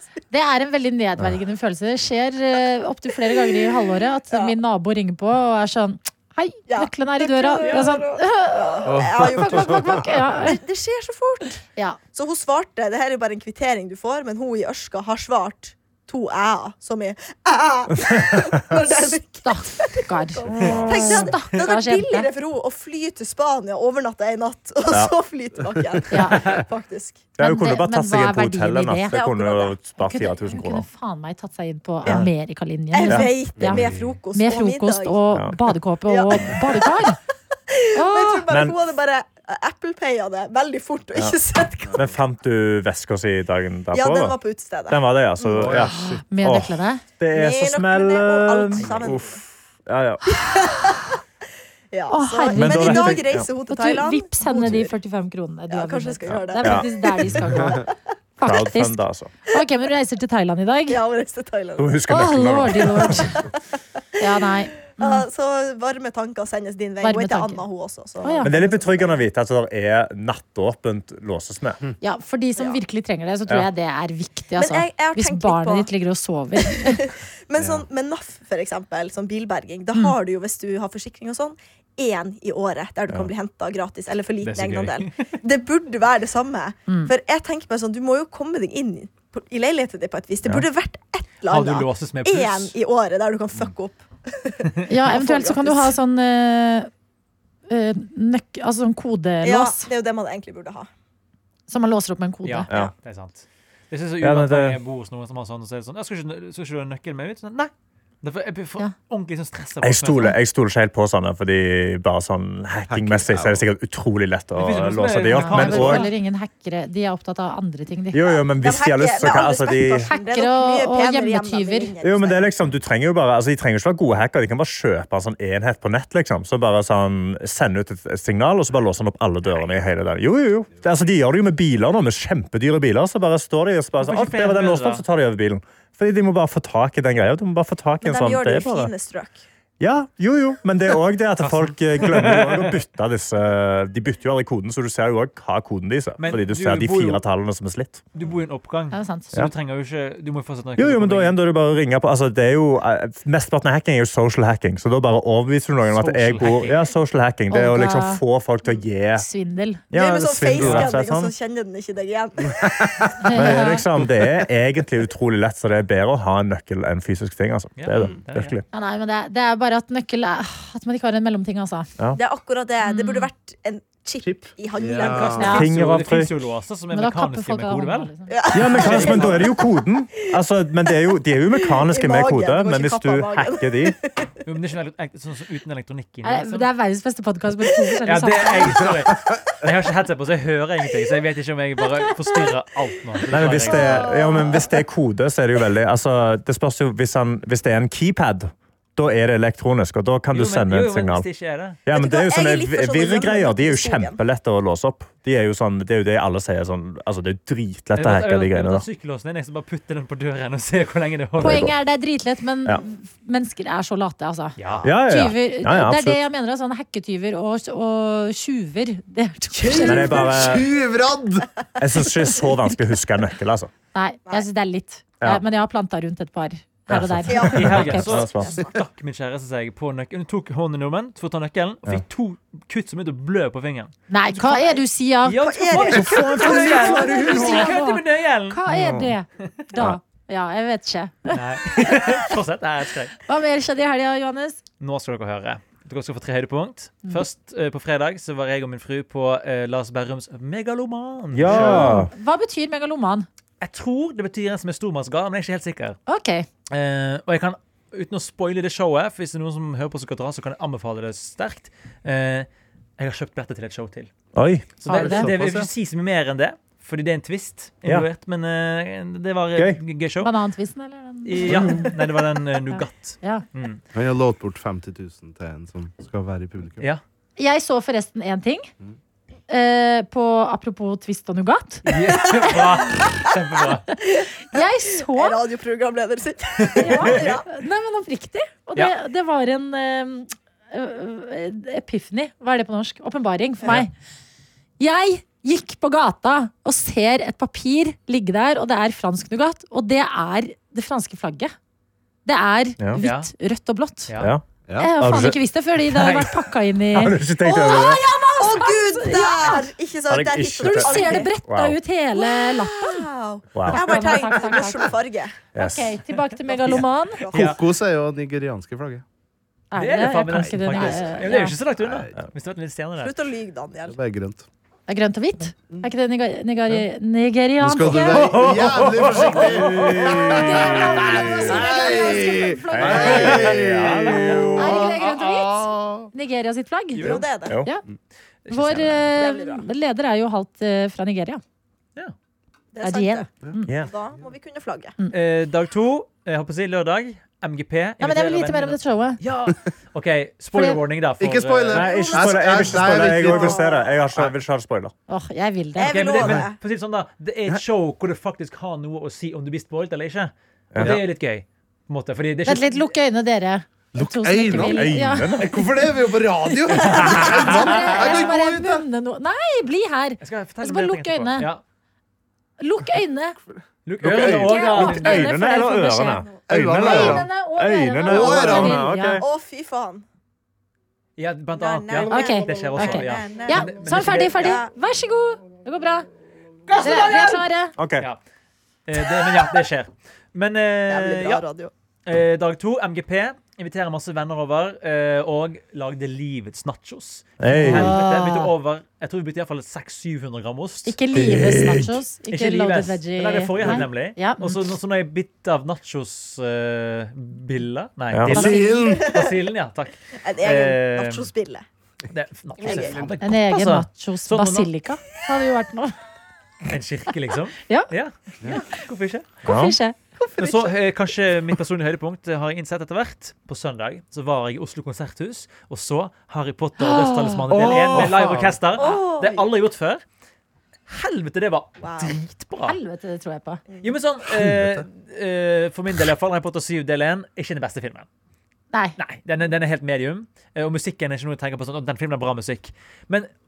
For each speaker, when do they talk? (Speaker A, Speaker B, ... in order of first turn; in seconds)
Speaker A: 0.3-10.6, 19.4-22.3, 26.1-26.4, 27.4-33.8, 34.3-37.2, 38.0-38.4, 45.9-47.0, 52.1-57.9, 58.4-61.0, 62.1-63.5, 64.2-65.3, 67.0-67.6, 68.2-68.6, 72.0-77.0, 94.9-96.9, 97.7-99.9, 101.7-102.7, 115.3-118.4, 120.0-121.9, 148.9-149.3, 157.5-158.2, 159.2-159.8, 163.2-163.9, 168.7-171.9, 172.8-173.3, 175.4-175.7, 176.9-178.4, 186.2-188.9, 194.1-194.5, 211.4-220.3, 223.9-228.3, 234.1-242.1, 243.3-244.6, 251.5-253.3, 256.1-256.5, 264.9-265.3, 270.2-271.9, 272.7-273.4, 277.4-278.7, 279.5-281.9, 284.5-285.4, 286.8-293.9, 294.8-301.5, 302.3-304.1, 304.8-307.2, 307.7-309.7, 310.6-313.1, 313.6-314.9, 315.6-317.2, 319.7-321.6, 324.9-328.3, 330.1-333.5, 334.6-337.8, 338.5-341.4, 342.8-343.7, 348.0-349.2, 350.5-350.8, 355.1-356.0, 362.4-365.6, 366.5-371.5, 372.6-373.4, 374.2-379.2, 382.1-386.1, 386.8-387.7, 397.5-398.5, 400.9-404.6, 408.3-408.9, 413.2-416.0, 418.4-418.8, 419.4-420.4, 426.8-427.9, 432.6-433.6
Speaker B: 3.3-3.8, 6.7-27.3, 29.1-29.7, 32.9-35.2, 36.1-37.1, 37.7-42.1, 43.9-45.8, 47.3-49.4, 50.3-51.2, 51.9-54.9, 55.7-57.8, 60.9-62.1, 62.6-63.6, 65.0-69.2, 74.6-75.9, 76.6-95.9, 99.4-100.9, 118.6-122.5, 138.0-139.4, 159.9-163.2, 172.2-175.6, 178.3-179.7, 181.6-184.3, 193.7-194.7, 201.9-204.2, 227.3-228.7, 234.4-234.8, 235.4-237.2, 281.9-283.2, 284.1-287.5, 307.4-311.3, 312.2-315.4, 316.7-317.6, 323.0-324.0, 337.0-337.6, 339.1-339.7, 342.7-344.9, 351.7-353.9, 355.8-356.6, 379.2-380.1, 381.5-384.7, 390.9-391.7, 408.9-409.4, 410.2-411.6, 412.6-413.1, 420.4-420.7, 428.8-429.4, 431.8-432.1, 433.7-433.9
Speaker C: 8.9-9.7, 33.6-34.1, 45.5-46.2, 112.9-113.7, 162.5-162.9, 174.2-175.5, 219.6-221.5, 264.9-265.7, 273.9-276.9, 304.7-304.9, 317.3-319.0, 320.7-321.1, 321.8-322.1, 323.9-324.5, 327.6-336.1, 351.2-354.3, 363.9-368.9, 373.5-374.5, 376.5-377.3, 378.1-378.9, 408.3-409.2, 412.7-413.2, 427.5-428.6, 434.3-434.9
Speaker D: 18.1-18.5, 20.6-21.2, 27.4-30.9, 35.3-35.6, 38.5-38.8, 42.0-44.4, 44.9-50.7, 52.5-53.5, 56.6-57.3, 58.4-59.3, 61.8-63.2, 68.4-71.8, 104.2-104.8, 109.8-116.1, 118.1-120.1, 122.0-138.9, 139.8-148.0, 150.8-159.3, 159.9-161.3, 163.3-168.7, 175.4-176.4, 178.5-184.0, 193.3-201.3, 201.9-208.9, 211.4-211.8, 214.8-216.2, 219.9-220.7, 221.8-223.7, 226.9-228.6, 236.0-237.4, 238.7-239.2, 251.3-252.1, 264.4-264.8, 304.2-304.4, 305.0-305.4, 306.9-308.0, 310.1-311.8, 313.5-314.1, 315.6-316.0, 329.4-331.6, 332.7-334.9, 351.7-354.9, 360.7-361.0, 364.5-365.5, 367.0-367.4, 374.0-379.2, 387.8-388.1, 397.4-397.9, 401.1-402.0, 408.1-408.5, 419.4-419.8, 427.5-428.4
Speaker E: 84.4-85.3, 91.5-92.8, 102.5-110.3, 114.5-116.1, 134.0-135.1, 141.4-142.8, 146.2-147.2, 148.1-151.4, 155.9-156.9, 167.8-168.6, 175.0-178.1, 178.7-179.5, 184.4-186.7, 188.1-194.1, 200.3-201.8, 207.9-211.7, 214.6-214.9, 227.5-233.9, 235.2-238.6, 241.3-243.2, 244.8-252.0, 253.6-256.0, 256.7-264.1, 264.8-270.3, 271.2-273.8, 281.9-283.9, 286.8-287.3, 303.0-303.3, 305.9-306.4, 317.3-317.6, 319.8-323.1, 328.1-329.4, 333.1-334.6, 337.0-337.2, 338.5-339.1, 345.1-351.9, 355.8-362.9, 370.2-371.6, 373.9-375.3, 381.2-384.6, 386.7-387.4, 388.9-391.4, 392.1-401.0, 402.3-411.3, 412.1-414.7, 416.7-419.4, 420.4-430.0, 430.9-432.8, 433.8-438.1, 439.0-443.3